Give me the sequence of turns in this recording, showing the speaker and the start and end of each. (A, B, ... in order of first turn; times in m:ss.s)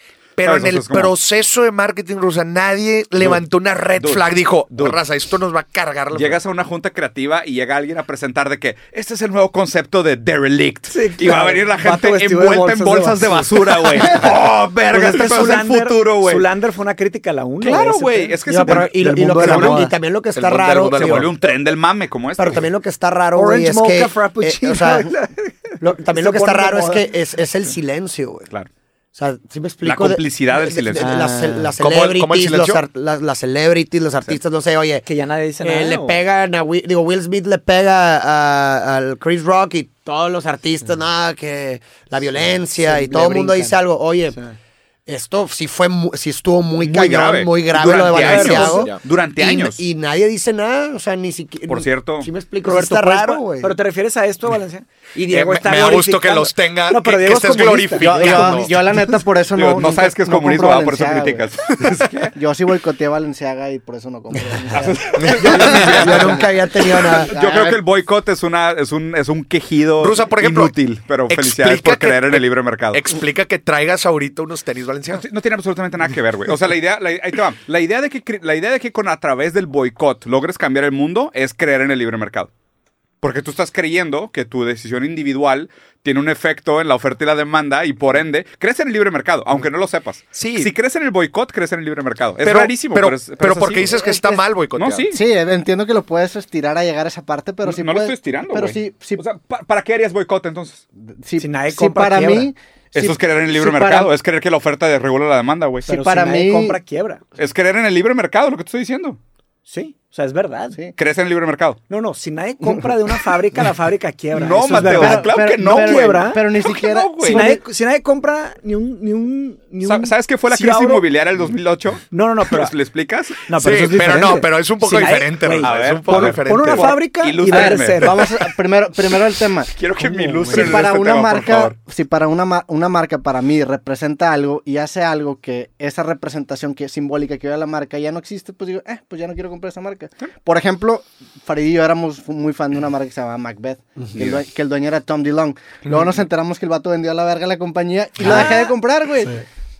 0:00.4-0:06.4 A
0:00.4-0:01.1 B
0:04.0-0:05.0 B
0:06.1-0:16.5 B
0:10.9-0:14.3 C
0:14.9-0:19.9 C
0:17.6-0:19.8 B
0:18.5-0:21.3 D
0:20.3-0:21.3 A
0:21.0-0:22.7 B
0:22.4-0:25.1 D
0:23.3-0:27.0 C
0:25.8-0:28.5 D
0:29.1-0:35.0 D
0:29.8-0:31.2 B
0:31.0-0:31.7 C
0:31.8-0:32.8 A
0:35.0-0:36.2 C
0:35.6-0:44.4 D
0:42.8-0:43.8 C
0:45.1-0:53.8 D
0:46.8-0:49.8 B
0:48.1-0:48.9 C
0:48.1-0:49.0 A
0:51.7-0:52.3 B
0:52.6-0:58.7 C
0:55.2-0:58.9 A
0:58.0-1:01.5 E
0:59.5-1:02.3 B
1:02.3-1:07.8 E
1:04.7-1:06.4 B
1:05.2-1:06.0 A
1:05.4-1:07.3 D
1:07.3-1:13.0 B
1:10.0-1:10.8 A
1:11.3-1:15.2 A
1:15.1-1:22.5 B
1:23.2-1:34.0 B
1:30.3-1:30.7 A
1:32.4-1:35.2 A
1:33.8-1:34.4 E
1:34.7-1:35.2 B
1:35.1-1:39.2 E
1:37.6-1:40.8 B
1:41.2-1:44.1 E
1:41.4-1:42.5 C
1:42.9-1:45.9 B
1:45.9-1:46.8 E
1:45.9-1:47.2 C
1:47.4-1:49.2 B
1:49.7-1:50.8 C
1:51.0-1:51.8 B
1:51.9-1:56.5 C
1:54.3-1:57.6 B
1:54.7-1:57.6 E
1:57.2-2:01.0 C
1:59.8-2:03.5 B
2:02.1-2:02.7 C
2:03.4-2:08.2 C
2:03.5-2:07.0 A
2:05.6-2:08.2 B
2:07.5-2:09.7 E
2:09.6-2:11.8 B
2:10.1-2:10.8 C
2:10.4-2:29.4 E
2:24.1-2:24.4 B
2:28.2-2:28.7 C